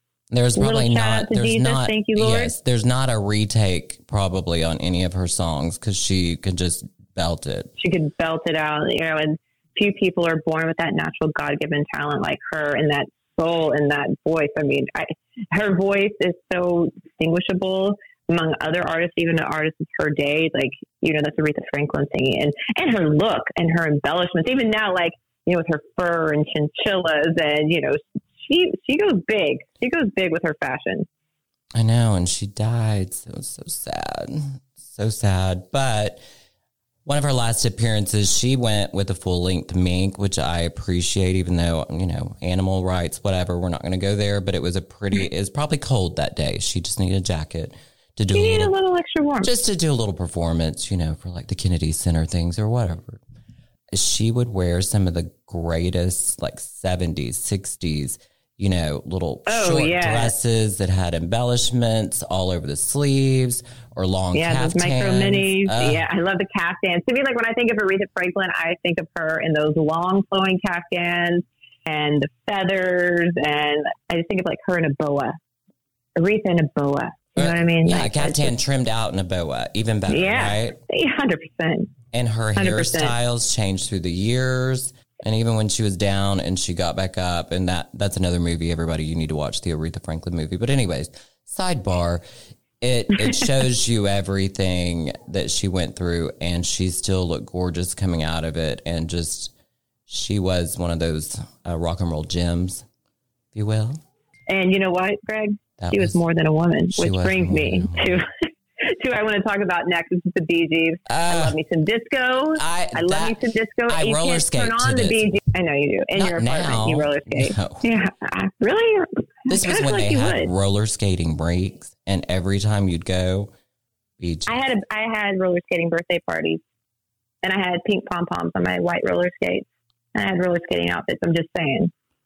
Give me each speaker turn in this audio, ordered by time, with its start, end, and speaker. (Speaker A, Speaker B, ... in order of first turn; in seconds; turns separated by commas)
Speaker A: 0.3-7.7, Speaker B: 0.6-2.5, Speaker B: 7.8-31.1, Speaker A: 31.7-36.2, Speaker A: 37.0-48.7, Speaker B: 48.3-49.5, Speaker A: 49.4-53.2, Speaker A: 53.9-66.0, Speaker B: 59.5-60.3, Speaker B: 64.3-75.4, Speaker B: 76.2-78.5, Speaker A: 77.4-80.8, Speaker B: 80.1-81.9, Speaker A: 82.1-92.2, Speaker B: 82.5-83.1, Speaker A: 92.8-99.5, Speaker A: 100.1-102.8, Speaker A: 103.5-104.0, Speaker B: 104.5-120.5, Speaker A: 105.8-106.2, Speaker A: 106.9-108.2, Speaker A: 111.1-111.6, Speaker A: 112.6-115.4, Speaker A: 116.1-117.8, Speaker A: 119.5-123.5, Speaker A: 124.2-124.7, Speaker B: 124.5-126.6, Speaker B: 127.4-131.9